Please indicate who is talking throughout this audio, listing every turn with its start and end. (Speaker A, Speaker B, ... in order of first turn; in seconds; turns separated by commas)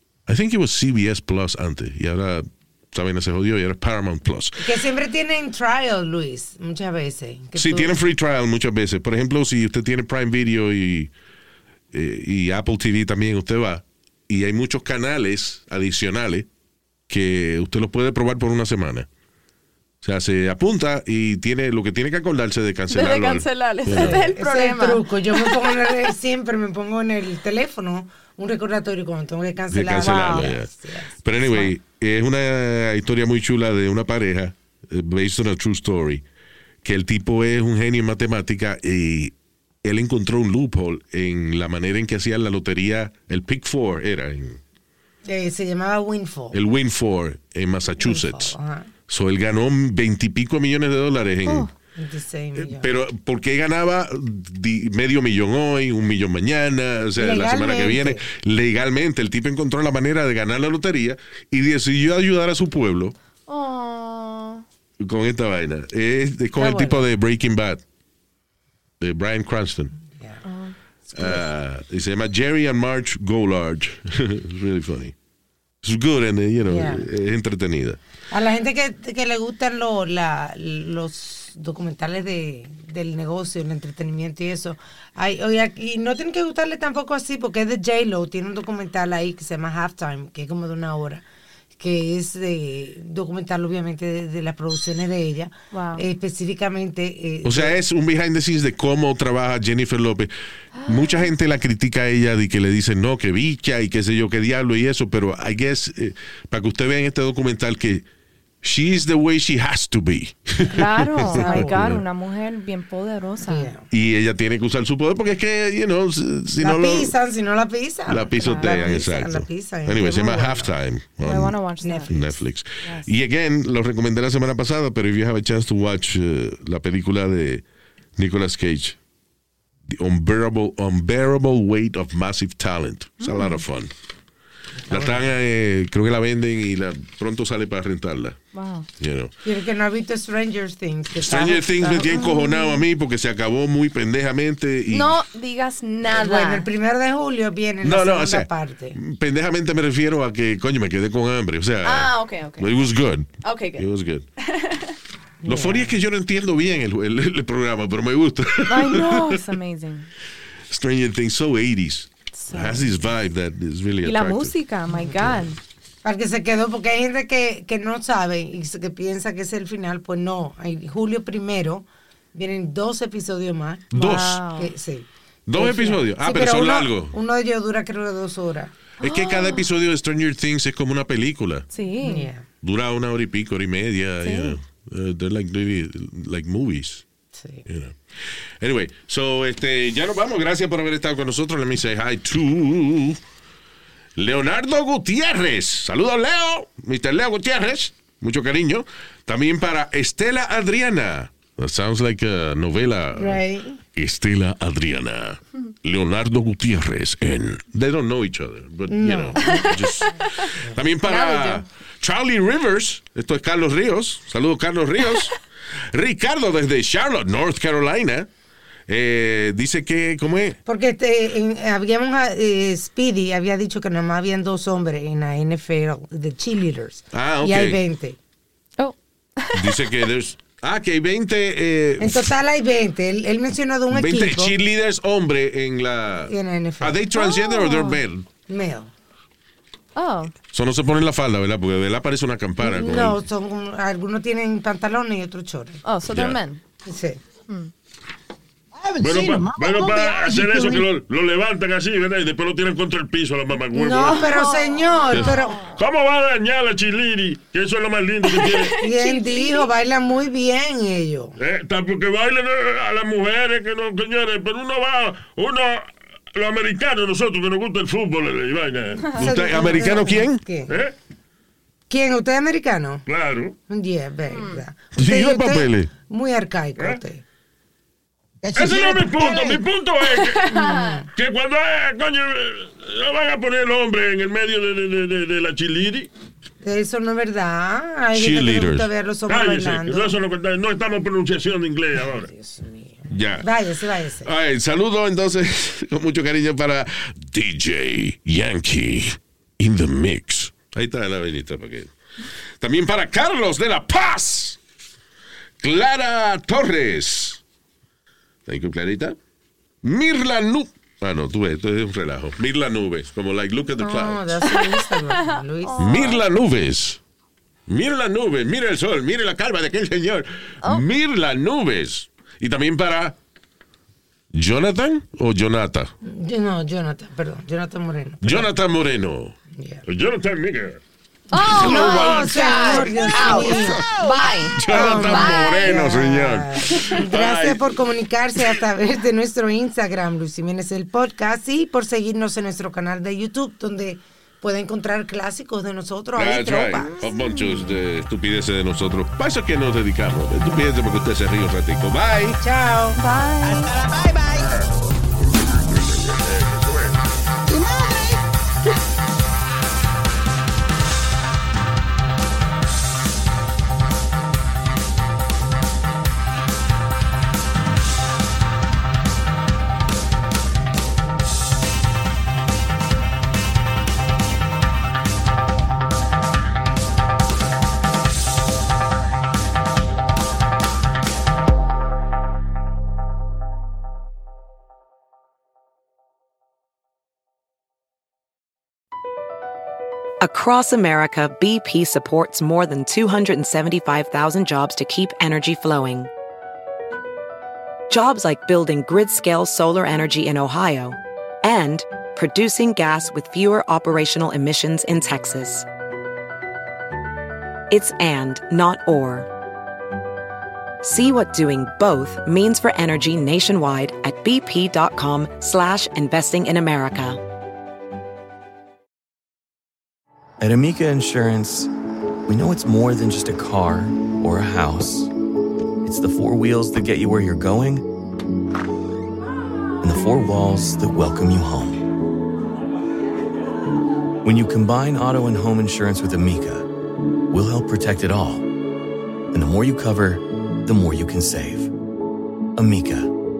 Speaker A: 0.3-4.7, Speaker B: 4.6-8.0, Speaker A: 7.5-11.1, Speaker A: 11.9-16.4, Speaker A: 17.1-19.1, Speaker A: 20.0-24.2, Speaker C: 22.9-25.8, Speaker B: 23.9-31.1, Speaker A: 29.7-30.7, Speaker C: 30.0-30.5, Speaker A: 31.2-36.2, Speaker C: 31.4-31.7, Speaker A: 36.8-39.3, Speaker A: 39.8-44.6, Speaker B: 45.2-46.6, Speaker A: 46.5-48.5, Speaker B: 48.0-48.9, Speaker A: 49.1-51.7, Speaker C: 51.4-51.7, Speaker B: 52.0-52.9, Speaker A: 52.5-63.1, Speaker B: 57.2-58.2, Speaker C: 63.5-64.6, Speaker A: 65.0-67.8, Speaker C: 66.6-67.0, Speaker A: 69.0-69.9, Speaker C: 70.4-70.7, Speaker B: 71.1-71.4, Speaker A: 71.1-75.1, Speaker A: 75.8-78.0, Speaker B: 76.7-77.0, Speaker B: 78.3-91.2, Speaker B: 91.8-97.8, Speaker C: 95.7-96.0, Speaker A: 97.4-100.3, Speaker C: 100.8-101.3, Speaker A: 100.8-108.0, Speaker A: 108.6-112.0, Speaker B: 110.6-112.0, Speaker C: 110.7-113.7, Speaker B: 113.4-113.9, Speaker A: 113.9-117.1, Speaker B: 116.6-120.8, Speaker A: 118.1-121.6, Speaker C: 118.4-118.8, Speaker C: 121.2-122.2, Speaker B: 121.8-122.3, Speaker A: 122.1-127.6, Speaker C: 122.8-123.1, Speaker A: 128.2-128.9, Speaker A: 129.9-133.9, Speaker C: 133.2-133.6, Speaker B: 134.9-135.2, Speaker A: 134.9-138.4, Speaker C: 138.5-138.9, Speaker A: 139.0-139.3, Speaker B: 139.4-142.2, Speaker A: 141.2-145.1, Speaker C: 142.1-142.8, Speaker C: 144.9-146.7, Speaker B: 146.1-149.0, Speaker A: 147.8-154.2, Speaker C: 151.8-152.8, Speaker C: 153.4-153.9, Speaker C: 154.4-154.9, Speaker B: 155.4-155.9, Speaker A: 155.4-159.4, Speaker C: 158.7-160.1, Speaker A: 160.7-164.5, Speaker C: 162.3-162.9, Speaker C: 164.0-165.6, Speaker B: 164.9-165.3, Speaker B: 166.0-173.9, Speaker A: 173.9-174.4, Speaker C: 173.9-174.7, Speaker B: 174.5-178.7, Speaker A: 175.5-177.1, Speaker C: 179.0-179.7, Speaker A: 179.0-181.7, Speaker C: 181.7-182.3, Speaker B: 182.0-182.4, Speaker A: 182.6-187.0, Speaker C: 184.2-184.6, Speaker B: 187.4-187.6, Speaker A: 187.7-187.9, Speaker A: 188.6-193.2, Speaker A: 194.2-203.4, Speaker B: 203.2-203.8, Speaker A: 203.9-215.4, Speaker B: 208.9-209.7, Speaker C: 209.4-211.6, Speaker A: 215.9-218.3, Speaker A: 218.9-220.6, Speaker B: 220.7-228.2, Speaker A: 227.1-227.8, Speaker C: 228.8-230.0, Speaker A: 229.5-232.3, Speaker B: 232.0-234.5, Speaker A: 233.9-238.2, Speaker B: 236.3-237.0, Speaker C: 237.1-238.0, Speaker B: 238.5-238.9, Speaker C: 239.9-240.3, Speaker A: 240.5-243.2, Speaker B: 242.6-245.8, Speaker C: 245.8-246.6, Speaker A: 246.1-246.4, Speaker B: 246.8-247.2, Speaker D: 248.7-250.9, Speaker E: 249.0-254.4, Speaker B: 253.7-255.7, Speaker C: 254.2-255.7, Speaker E: 255.8-258.8, Speaker C: 258.4-259.7, Speaker B: 258.8-261.4, Speaker E: 261.4-269.1, Speaker B: 269.1-270.8, Speaker A: 269.2-270.4, Speaker E: 270.7-270.9, Speaker B: 271.9-273.0, Speaker E: 273.1-273.5, Speaker B: 273.7-277.2, Speaker C: 274.3-274.6, Speaker A: 274.9-275.9, Speaker D: 278.4-279.4, Speaker E: 278.5-280.4, Speaker B: 279.3-279.6, Speaker C: 280.0-281.0, Speaker B: 280.5-281.1, Speaker E: 281.1-286.1, Speaker B: 286.6-290.2, Speaker A: 288.1-288.9, Speaker E: 289.3-292.3, Speaker B: 292.2-294.3, Speaker A: 293.1-293.5, Speaker A: 294.2-301.9, Speaker A: 302.6-304.6, Speaker A: 305.6-307.4, Speaker A: 308.5-309.1, Speaker A: 309.8-314.5, Speaker B: 313.8-316.2, Speaker C: 314.4-316.2, Speaker A: 315.8-317.0, Speaker A: 317.7-323.1, Speaker A: 324.3-325.9, Speaker B: 326.0-328.5, Speaker A: 328.2-329.3, Speaker B: 329.6-329.8, Speaker E: 329.9-330.8, Speaker C: 331.3-335.9, Speaker B: 331.5-333.9, Speaker D: 331.6-334.3, Speaker E: 331.6-332.3, Speaker A: 334.6-337.8, Speaker B: 334.7-347.0, Speaker A: 346.1-352.4, Speaker C: 347.0-347.8, Speaker B: 352.4-353.0, Speaker C: 352.9-353.7, Speaker D: 353.4-354.5, Speaker E: 355.8-357.1, Speaker D: 357.5-358.2, Speaker F: 390.2-396.1, Speaker F: 397.9-405.7, Speaker F: 407.7-409.3, Speaker F: 410.8-417.2, Speaker G: 420.4-421.7, Speaker G: 422.3-425.1, Speaker G: 425.8-427.9, Speaker G: 429.8-431.9, Speaker G: 434.2-436.7, Speaker G: 437.3-438.5, Speaker G: 439.3-441.7, Speaker G: 442.6-443.1